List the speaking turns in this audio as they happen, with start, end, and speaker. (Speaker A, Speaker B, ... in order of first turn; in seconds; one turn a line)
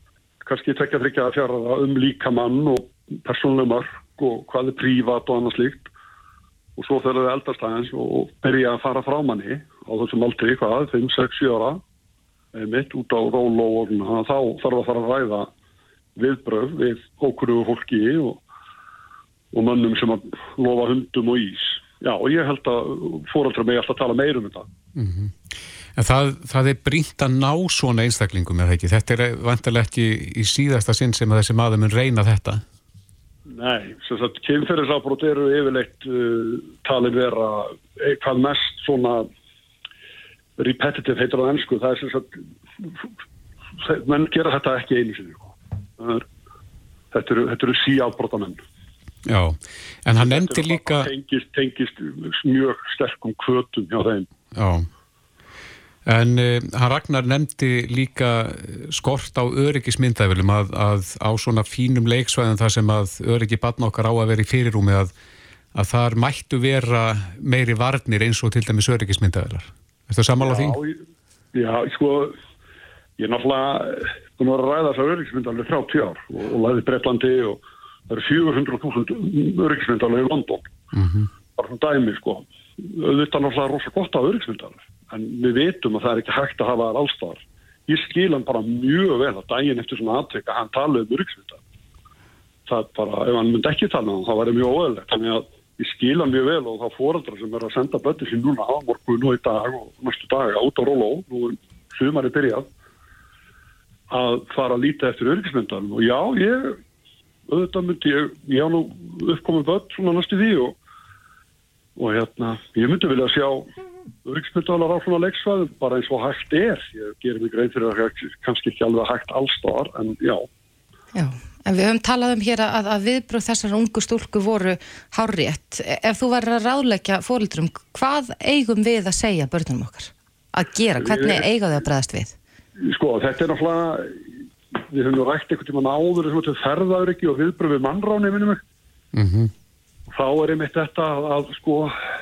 Speaker A: 0.4-5.9
Speaker A: 6.8-11.8
Speaker A: 12.5-15.5
Speaker A: 16.1-18.4
Speaker A: 19.5-24.7
Speaker B: 24.9-25.3
Speaker B: 25.9-32.6
Speaker A: 33.5-39.3
Speaker A: 40.6-42.9
Speaker A: 43.8-46.3
Speaker A: 47.1-48.6
Speaker B: 49.2-51.1
Speaker A: 50.1-54.3
Speaker B: 54.5-54.9
Speaker B: 56.0-65.1
Speaker B: 65.7-70.8
Speaker A: 70.4-71.0
Speaker A: 71.5-72.4
Speaker A: 73.2-80.7
Speaker B: 80.9-81.3
Speaker A: 81.6-91.6
Speaker A: 92.7-102.7
Speaker A: 104.1-106.8
Speaker A: 107.5-110.8
Speaker A: 112.0-113.7
Speaker A: 114.2-120.5
Speaker C: 121.1-132.3
Speaker A: 131.0-131.5
Speaker A: 132.8-134.3
Speaker A: 134.9-138.6
Speaker B: 139.1-139.5
Speaker A: 140.1-142.0